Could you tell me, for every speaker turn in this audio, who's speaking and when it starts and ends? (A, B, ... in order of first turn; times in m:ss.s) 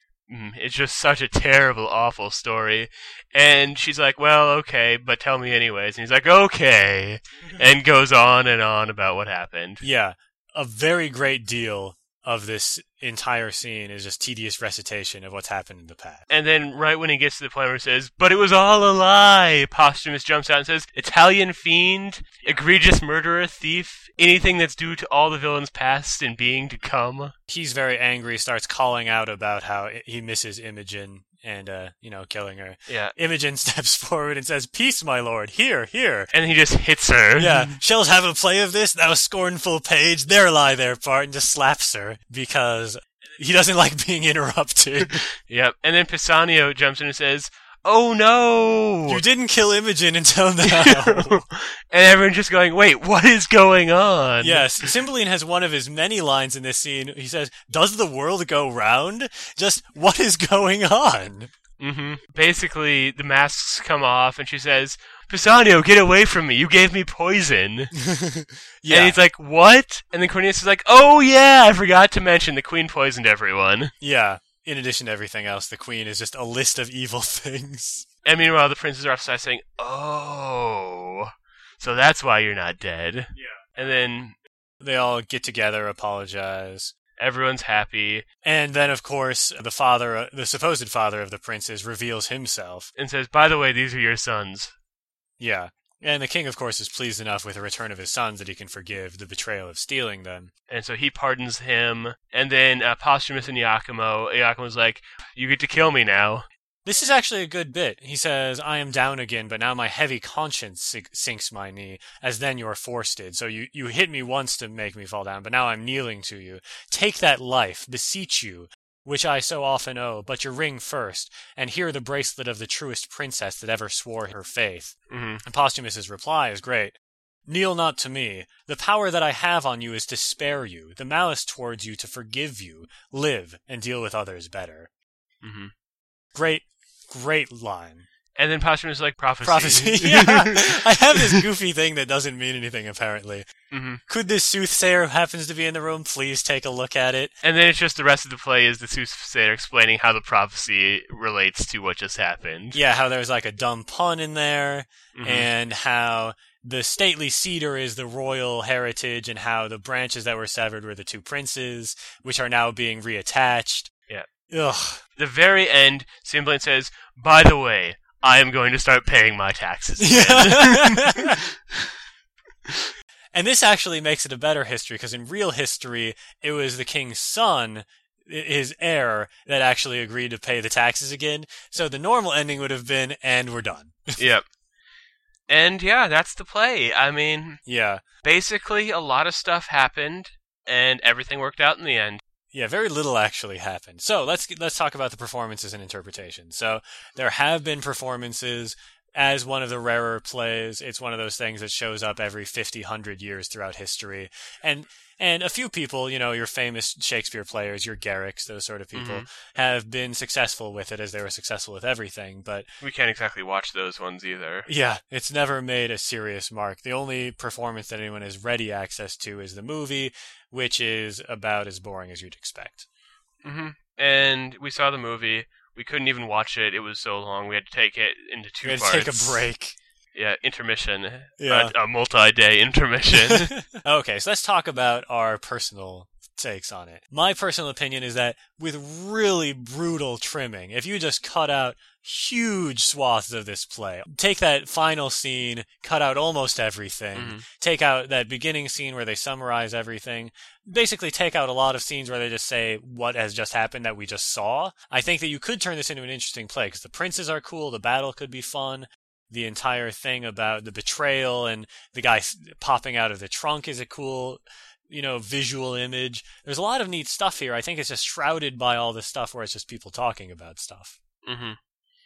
0:00.3-0:09.8 A
0:09.8-0:16.2 B
0:16.3-0:27.3 A
0:27.5-0:36.3 B
0:32.9-0:33.1 A
0:36.3-0:37.8 A
0:37.4-0:45.3 B
0:45.3-0:49.2 A
0:49.1-0:51.4 B
0:50.6-0:54.9 A
0:54.4-1:01.5 B
1:01.8-1:07.9 A
1:07.9-1:09.2 B
1:08.9-1:13.9 A
1:14.0-1:18.1 B
1:18.2-1:24.4 A
1:24.8-1:26.9 B
1:27.2-1:28.2 A
1:28.4-1:32.9 B
1:33.0-1:34.7 A
1:35.4-1:40.5 B
1:40.7-1:46.5 A
1:46.8-2:07.0 B
2:05.1-2:05.4 A
2:07.5-2:14.9 B
2:15.4-2:15.7 A
2:16.4-2:18.1 B
2:18.4-2:21.4 A
2:19.4-2:23.4 B
2:23.7-2:24.0 A
2:24.1-2:27.4 B
2:27.4-2:32.8 A
2:32.7-2:43.9 B
2:35.1-2:35.5 A
2:44.5-2:45.0 B
2:45.2-2:51.9 A
2:50.0-2:51.4 B
2:53.3-3:04.2 B
3:04.2-3:04.4 A
3:05.5-3:07.6 A
3:07.6-3:08.0 B
3:08.2-3:12.2 A
3:12.5-3:32.7 B
3:29.0-3:29.3 A
3:32.8-3:34.7 A
3:34.7-3:42.9 B
3:43.4-3:49.4 A
3:48.6-3:49.8 B
3:50.2-3:53.5 A
3:51.4-3:51.7 B
3:53.1-4:31.0 B
4:07.2-4:07.4 A
4:31.3-4:31.6 A